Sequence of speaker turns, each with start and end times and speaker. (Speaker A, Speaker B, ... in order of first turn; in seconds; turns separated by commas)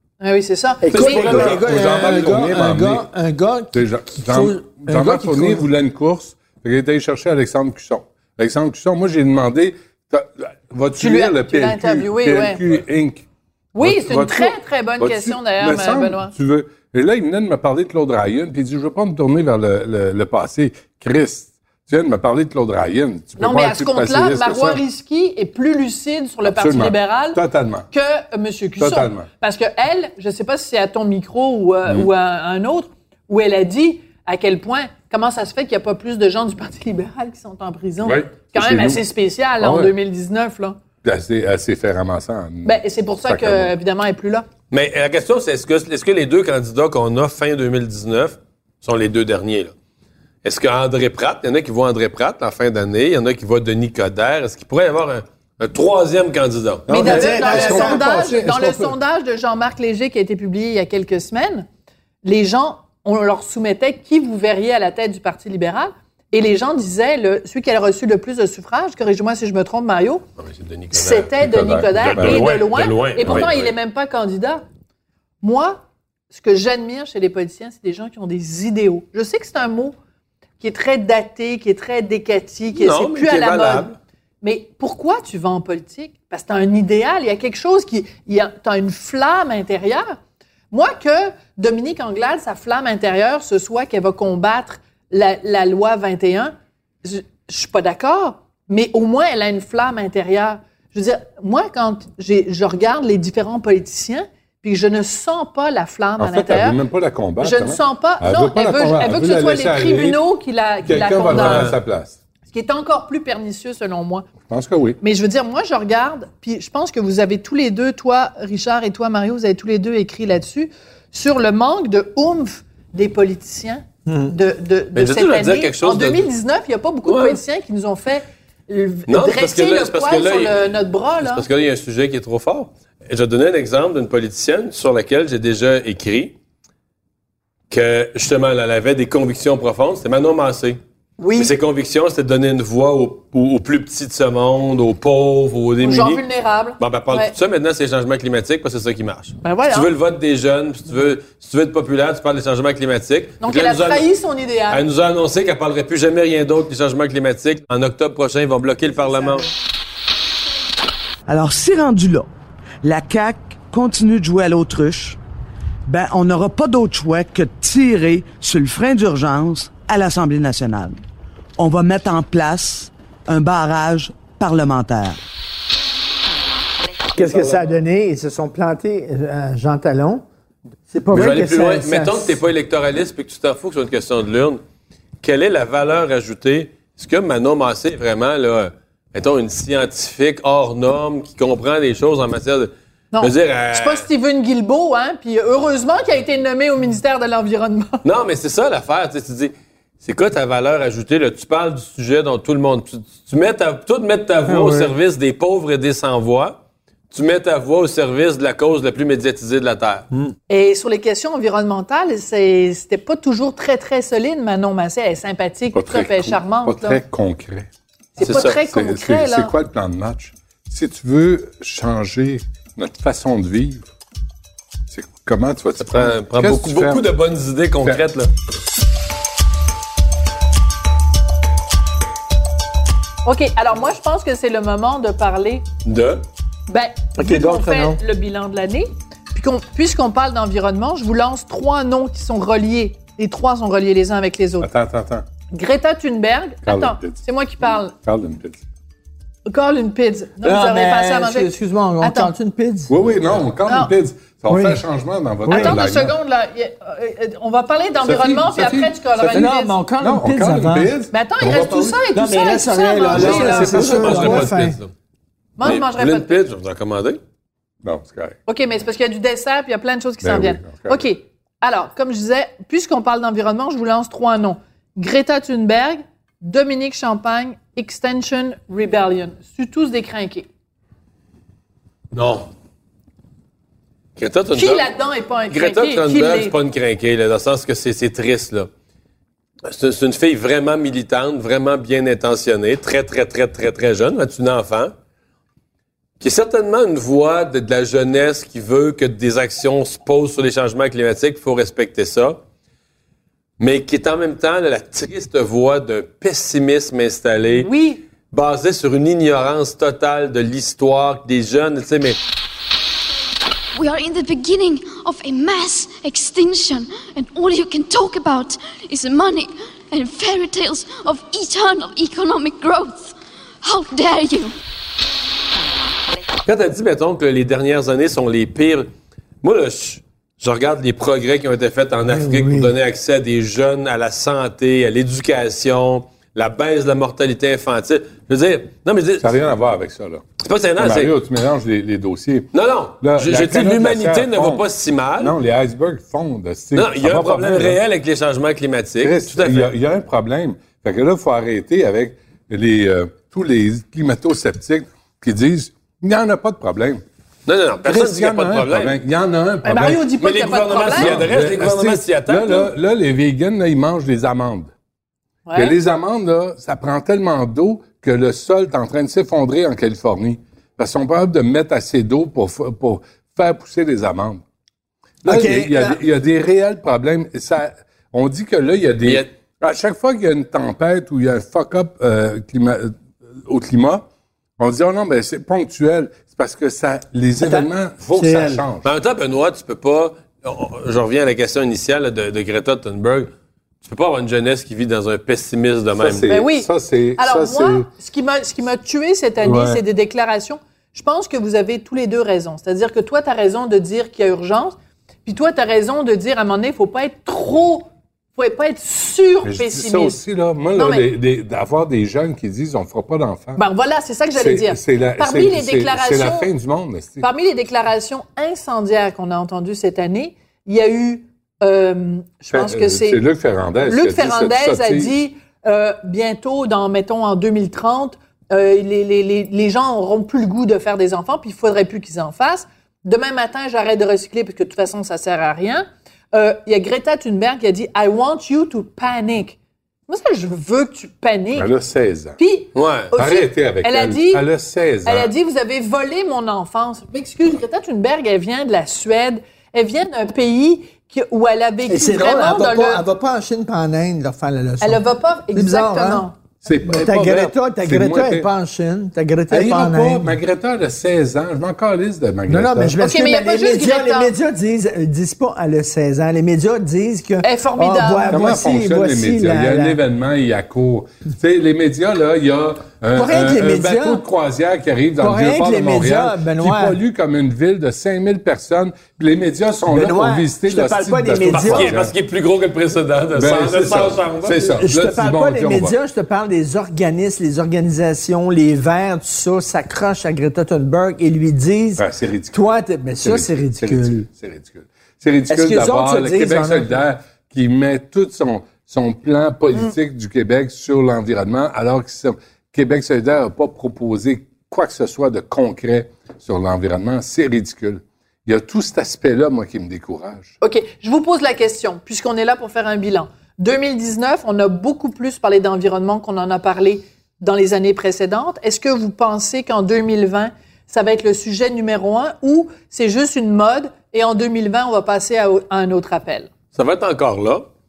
Speaker A: 0.2-1.5, Speaker B: 0.8-5.7, Speaker C: 0.9-1.6, Speaker D: 1.0-3.1, Speaker D: 3.7-13.2, Speaker A: 11.0-12.6, Speaker A: 13.7-16.3, Speaker D: 13.8-24.8, Speaker A: 23.4-27.4, Speaker D: 26.4-27.9, Speaker A: 27.9-40.8, Speaker D: 28.8-29.3, Speaker D: 38.0-39.0, Speaker D: 39.6-39.9, Speaker D: 41.0-43.7, Speaker A: 42.6-44.5, Speaker C: 44.7-49.7, Speaker C: 50.4-56.9, Speaker B: 56.9-58.2, Speaker D: 56.9-58.9, Speaker A: 56.9-61.7, Speaker A: 62.2-70.2, Speaker C: 70.4-71.3, Speaker A: 70.9-74.6, Speaker D: 71.4-72.5, Speaker C: 72.0-73.7, Speaker D: 73.2-73.5, Speaker A: 75.4-79.9, Speaker A: 80.6-83.9, Speaker C: 82.7-84.0, Speaker A: 84.4-90.2, Speaker A: 90.7-106.8, Speaker D: 106.2-110.2, Speaker A: 107.4-111.8, Speaker D: 110.8-112.2, Speaker C: 111.3-111.8, Speaker A: 112.5-114.3, Speaker D: 114.5-115.0, Speaker A: 115.0-131.4, Speaker B: 124.0-124.3, Speaker C: 124.9-126.3, Speaker C: 127.0-127.4, Speaker C: 129.1-130.7, Speaker C: 131.2-136.3, Speaker C: 137.7-140.8, Speaker A: 141.2-141.5, Speaker C: 141.3-146.2, Speaker A: 145.8-147.3, Speaker C: 146.8-154.0, Speaker A: 149.4-149.9, Speaker A: 153.4-154.8, Speaker C: 154.7-159.4, Speaker A: 159.1-159.4, Speaker E: 161.3-162.3, Speaker E: 162.8-165.2, Speaker E: 165.8-171.0, Speaker E: 171.6-175.2, Speaker B: 177.1-180.2, Speaker C: 177.2-177.6, Speaker B: 180.9-182.4, Speaker C: 181.1-184.6, Speaker C: 185.2-194.1, Speaker A: 193.1-198.0, Speaker C: 198.0-206.6, Speaker B: 204.5-204.9, Speaker C: 207.1-210.1, Speaker A: 210.5-217.0, Speaker D: 215.7-217.7, Speaker A: 218.2-219.5, Speaker C: 218.2-218.6, Speaker D: 218.2-223.8, Speaker D: 224.9-227.1, Speaker C: 225.8-228.3, Speaker A: 233.2-235.6, Speaker C: 235.8-236.2, Speaker A: 236.7-244.7, Speaker B: 237.2-238.0, Speaker D: 244.6-245.2, Speaker A: 245.5-247.9, Speaker D: 246.6-247.2, Speaker D: 247.9-248.6, Speaker A: 249.5-252.3, Speaker B: 250.4-252.9, Speaker D: 252.9-256.1, Speaker A: 253.7-253.9, Speaker B: 254.5-254.8, Speaker B: 255.5-255.8, Speaker A: 255.5-259.8, Speaker D: 258.0-262.1, Speaker B: 259.3-260.9, Speaker A: 261.1-264.2, Speaker B: 262.1-264.8, Speaker D: 263.1-264.5, Speaker C: 263.2-264.9, Speaker A: 265.6-266.3, Speaker C: 265.6-267.2, Speaker D: 267.8-268.4, Speaker A: 268.5-280.5, Speaker D: 270.2-271.0, Speaker C: 282.1-282.5, Speaker C: 284.2-284.9, Speaker A: 284.5-286.5, Speaker C: 285.5-288.7, Speaker C: 289.6-294.9, Speaker C: 296.2-302.4, Speaker C: 303.6-307.7, Speaker A: 307.6-308.0, Speaker C: 308.3-312.2, Speaker F: 313.8-324.5, Speaker C: 326.4-328.9, Speaker C: 329.4-339.4, Speaker B: 332.1-332.7, Speaker D: 339.2-340.2, Speaker C: 340.4-341.1, Speaker D: 340.8-344.6, Speaker C: 342.5-345.3, Speaker D: 345.2-347.8, Speaker C: 346.7-349.7, Speaker D: 349.0-357.0, Speaker C: 357.4-359.0, Speaker D: 357.8-360.1, Speaker A: 359.6-361.2, Speaker C: 360.2-362.7, Speaker D: 360.9-364.7, Speaker A: 365.4-365.7, Speaker D: 365.5-374.4, Speaker D: 375.2-384.1, Speaker B: 375.2-376.0, Speaker D: 384.6-388.9, Speaker B: 387.4-388.6, Speaker C: 388.8-393.3, Speaker C: 393.8-396.3, Speaker D: 396.0-397.9, Speaker A: 396.3-410.2, Speaker D: 399.4-399.8, Speaker D: 409.4-413.6, Speaker A: 410.7-411.1, Speaker A: 413.6-416.5, Speaker D: 414.3-417.2, Speaker A: 417.2-423.2, Speaker D: 422.5-425.1, Speaker A: 423.8-441.7, Speaker D: 441.5-442.4, Speaker A: 442.4-444.4, Speaker C: 442.7-443.1, Speaker D: 443.1-445.3, Speaker A: 445.0-453.0, Speaker B: 451.9-456.2, Speaker A: 454.8-456.4, Speaker D: 456.6-458.5, Speaker B: 456.8-460.4, Speaker D: 459.5-463.0, Speaker B: 462.5-470.0, Speaker A: 463.0-464.3, Speaker A: 467.4-468.4, Speaker D: 468.3-482.1, Speaker B: 473.1-474.2, Speaker B: 475.2-477.0, Speaker B: 479.9-481.9, Speaker C: 481.4-484.7, Speaker D: 483.3-485.9, Speaker B: 484.7-494.3, Speaker D: 492.0-492.6, Speaker D: 493.2-510.5, Speaker B: 495.5-497.0, Speaker A: 510.6-526.5, Speaker C: 526.7-527.6